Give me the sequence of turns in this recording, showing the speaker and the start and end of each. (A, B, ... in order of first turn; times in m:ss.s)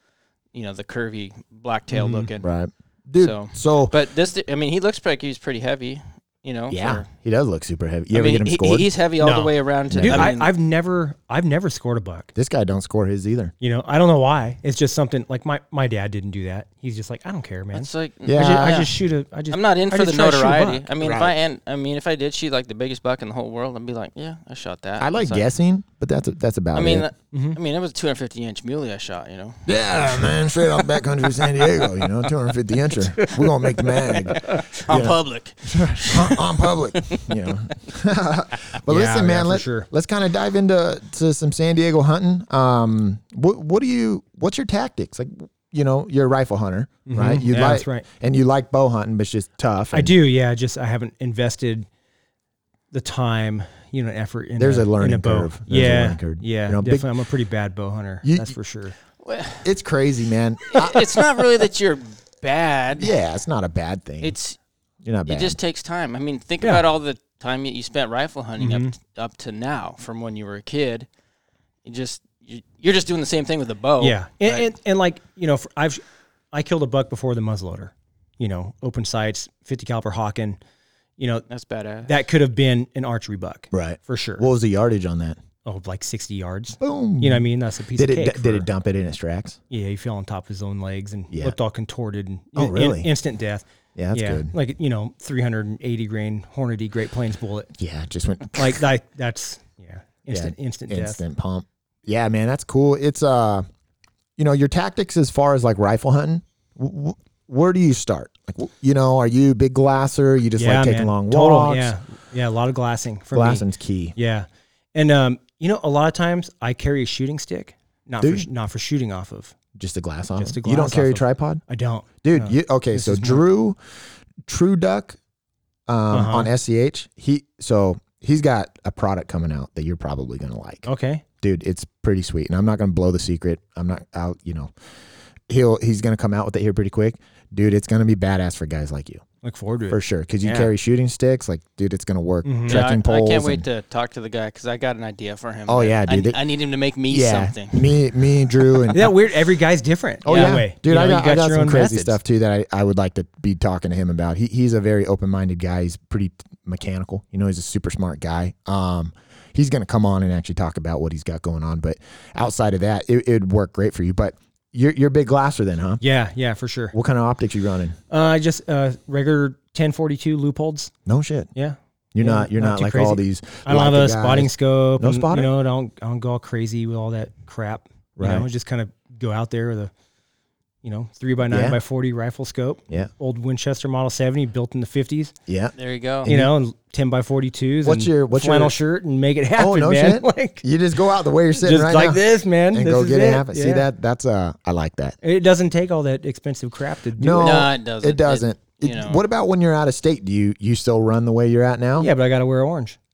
0:00.5-0:02.5 A
0:01.9-0:02.3 B
0:02.4-0:04.0 C
0:03.2-0:07.1 A
0:06.7-0:08.9 C
0:08.1-0:10.5 A
0:09.2-0:12.3 B
0:09.9-0:10.3 C
0:12.4-0:13.5 C
0:13.6-0:20.9 B
0:17.7-0:25.5 A
0:18.2-0:18.8 C
0:21.0-0:21.3 C
0:25.0-0:27.1 C
0:26.7-0:32.1 A
0:27.3-0:27.6 B
0:29.7-0:50.1 C
0:34.1-0:37.4 A
0:38.9-0:39.9 B
0:47.1-0:48.0 B
0:49.9-0:51.9 B
0:52.9-0:58.9 B
0:54.6-0:57.1 C
0:58.2-0:58.5 C
0:59.2-0:59.7 A
0:59.6-1:01.3 C
1:00.7-1:03.1 A
1:03.0-1:04.3 C
1:04.2-1:04.6 A
1:05.0-1:05.6 C
1:05.2-1:11.1 A
1:08.6-1:08.9 B
1:11.8-1:14.6 A
1:14.0-1:20.6 B
1:21.2-1:21.5 B
1:21.5-1:22.1 A
1:22.0-1:24.4 B
1:23.7-1:25.4 C
1:25.6-1:28.6 B
1:26.8-1:27.4 C
1:28.0-1:29.6 C
1:29.7-1:37.7 B
1:31.3-1:31.6 C
1:32.5-1:33.1 C
1:34.0-1:34.5 C
1:37.8-1:38.8 C
1:38.6-1:41.2 B
1:40.3-1:43.6 C
1:44.4-1:51.9 C
1:50.6-1:53.6 B
1:53.3-1:54.1 C
1:54.2-1:59.6 B
1:58.2-1:58.4 C
1:59.8-2:01.6 C
2:00.4-2:03.4 B
2:02.2-2:03.8 C
2:04.4-2:05.2 C
2:05.9-2:10.9 C
2:06.1-2:06.5 B
2:10.8-2:11.2 B
2:11.4-2:14.7 C
2:15.5-2:19.2 C
2:19.4-2:20.7 B
2:19.9-2:23.6 C
2:22.4-2:22.8 B
2:22.7-2:29.0 A
2:25.7-2:26.4 C
2:27.1-2:29.1 C
2:28.9-2:32.2 B
2:30.2-2:46.0 C
2:30.3-2:30.6 A
2:46.0-2:46.9 B
2:46.9-2:48.0 C
2:48.1-2:50.9 B
2:51.1-2:51.5 C
2:51.5-2:59.9 B
2:52.1-2:55.5 C
2:58.2-2:58.5 C
3:00.8-3:05.3 B
3:01.5-3:01.8 C
3:05.5-3:05.7 C
3:05.8-3:06.3 A
3:06.2-3:06.5 C
3:06.2-3:10.6 B
3:07.8-3:08.8 C
3:09.6-3:15.2 C
3:11.6-3:13.8 B
3:15.2-3:17.6 B
3:17.2-3:22.1 C
3:17.4-3:19.2 A
3:22.0-3:23.0 B